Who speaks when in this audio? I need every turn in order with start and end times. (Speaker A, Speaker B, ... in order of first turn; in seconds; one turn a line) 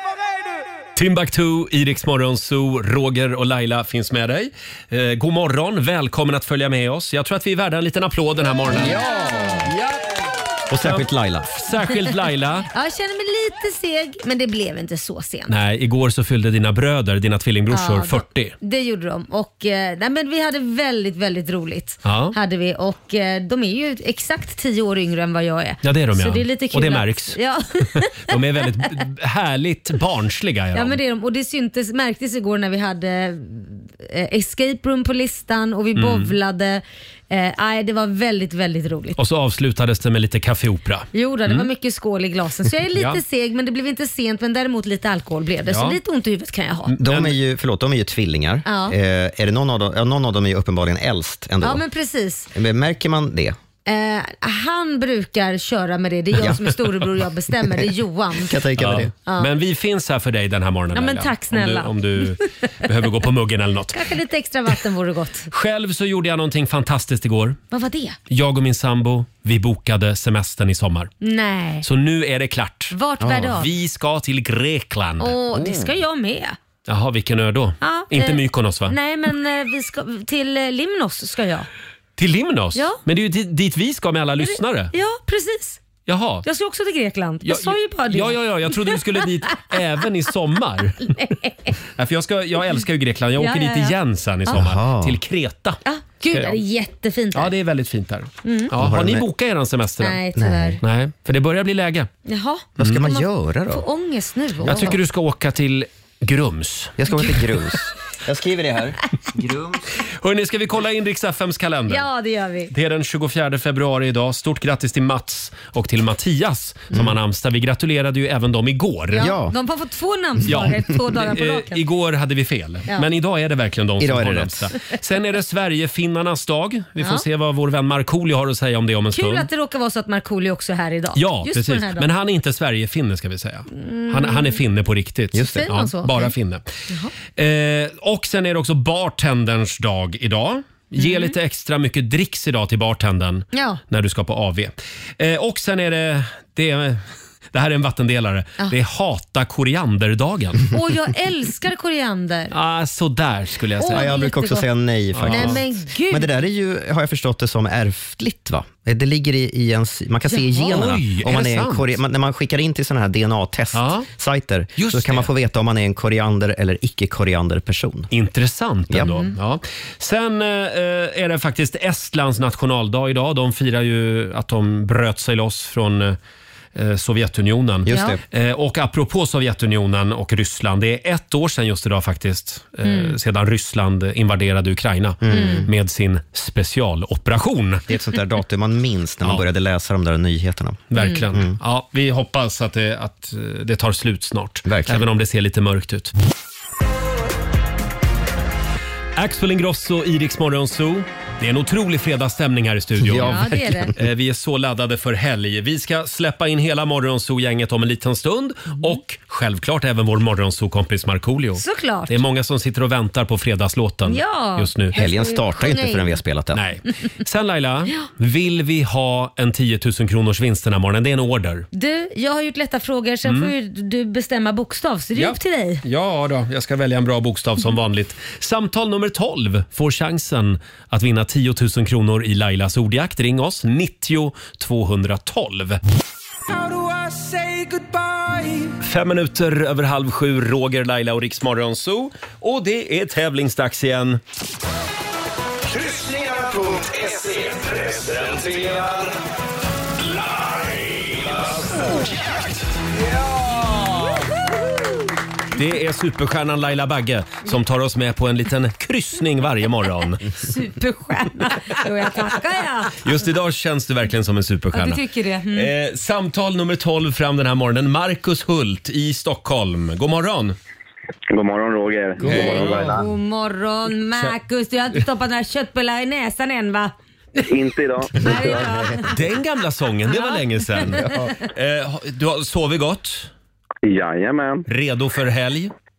Speaker A: 0.9-9.0
Speaker B: 8.7-9.7
Speaker C: 8.7-9.7
Speaker A: 9.7-9.9
Speaker B: 10.7-11.5
Speaker A: 10.8-12.7
Speaker C: 12.7-15.5
Speaker A: 15.5-18.5
Speaker C: 17.7-28.4
Speaker A: 22.0-22.4
Speaker A: 25.8-27.4
Speaker A: 28.2-31.0
Speaker C: 30.7-39.2
Speaker A: 36.0-36.3
Speaker A: 39.2-41.7
Speaker C: 41.1-47.0
Speaker A: 43.0-43.2
Speaker A: 45.7-46.0
Speaker A: 46.9-47.3
Speaker B: 47.0-51.8
Speaker C: 48.6-49.0
Speaker C: 51.6-52.5
Speaker B: 52.5-53.5
Speaker C: 53.9-58.6
Speaker B: 56.3-56.6
Speaker B: 57.7-59.1
Speaker A: 58.8-64.0
Speaker C: 60.9-62.3
Speaker C: 63.9-65.5
Speaker A: 65.5-67.6
Speaker C: 67.7-68.2
Speaker A: 68.3-71.1
Speaker C: 71.2-71.9
Speaker A: 71.8-75.3
Speaker C: 72.9-73.7
Speaker B: 73.2-73.6
Speaker C: 75.2-76.6
Speaker B: 75.5-75.9
Speaker A: 76.9-79.0
Speaker C: 77.8-81.7
Speaker A: 82.2-84.9
Speaker C: 82.7-83.0
Speaker C: 84.4-85.8
Speaker A: 86.1-86.5
Speaker C: 86.4-89.0
Speaker A: 87.4-91.2
Speaker C: 91.0-91.7
Speaker A: 92.0-95.8
Speaker C: 93.4-93.9
Speaker B: 94.5-95.2
Speaker C: 95.8-97.5
Speaker A: 96.3-96.6
Speaker A: 97.3-100.2
Speaker C: 98.4-98.7
Speaker B: 98.8-99.2
Speaker C: 100.0-100.8
Speaker B: 100.4-100.8
Speaker A: 100.8-102.1
Speaker C: 102.2-105.0
Speaker B: 102.8-103.8
Speaker A: 102.8-103.1
Speaker B: 104.6-104.9
Speaker A: 104.6-107.0
Speaker B: 107.0-109.8
Speaker A: 110.2-112.1
Speaker C: 111.9-112.7
Speaker A: 112.7-119.3
Speaker C: 119.1-121.8
Speaker B: 119.2-119.5
Speaker A: 120.5-129.5
Speaker B: 124.0-124.7
Speaker C: 129.1-132.1
Speaker A: 131.2-136.7
Speaker C: 133.7-134.6
Speaker B: 135.3-135.7
Speaker C: 135.4-136.3
Speaker A: 137.3-150.7
Speaker C: 141.0-141.3
Speaker C: 143.5-143.8
Speaker C: 150.7-152.5
Speaker A: 152.5-154.1
Speaker C: 153.8-154.7
Speaker B: 153.9-168.1
Speaker A: 155.1-155.6
Speaker C: 155.3-156.3
Speaker A: 160.7-162.0
Speaker A: 163.7-164.1
Speaker A: 164.8-165.3
Speaker A: 168.1-176.2
Speaker B: 168.9-169.3
Speaker A: 176.8-187.9
Speaker B: 177.9-178.2
Speaker C: 177.9-178.2
Speaker C: 182.8-183.2
Speaker B: 185.2-185.7
Speaker C: 185.3-185.7
Speaker B: 187.9-191.6
Speaker A: 190.9-196.1
Speaker C: 191.0-191.2
Speaker B: 194.7-195.0
Speaker A: 199.2-214.9
Speaker B: 203.0-203.9
Speaker C: 203.2-203.9
Speaker C: 211.6-212.2
Speaker C: 214.1-216.2
Speaker B: 214.9-216.6
Speaker A: 216.5-221.7
Speaker C: 221.7-225.8
Speaker A: 223.2-223.5
Speaker A: 225.2-235.8
Speaker A: 238.8-244.2
Speaker D: 245.7-249.1
Speaker A: 255.6-260.3
Speaker C: 260.3-262.9
Speaker A: 263.0-270.6
Speaker C: 264.7-265.7
Speaker E: 271.3-273.0
Speaker B: 272.2-273.0
Speaker A: 272.3-272.8
Speaker C: 272.3-276.9
Speaker E: 277.4-278.6
Speaker C: 278.2-279.1
Speaker B: 278.3-278.9
Speaker A: 279.1-283.3
Speaker B: 281.1-281.3
Speaker E: 283.8-284.6
Speaker A: 284.7-285.7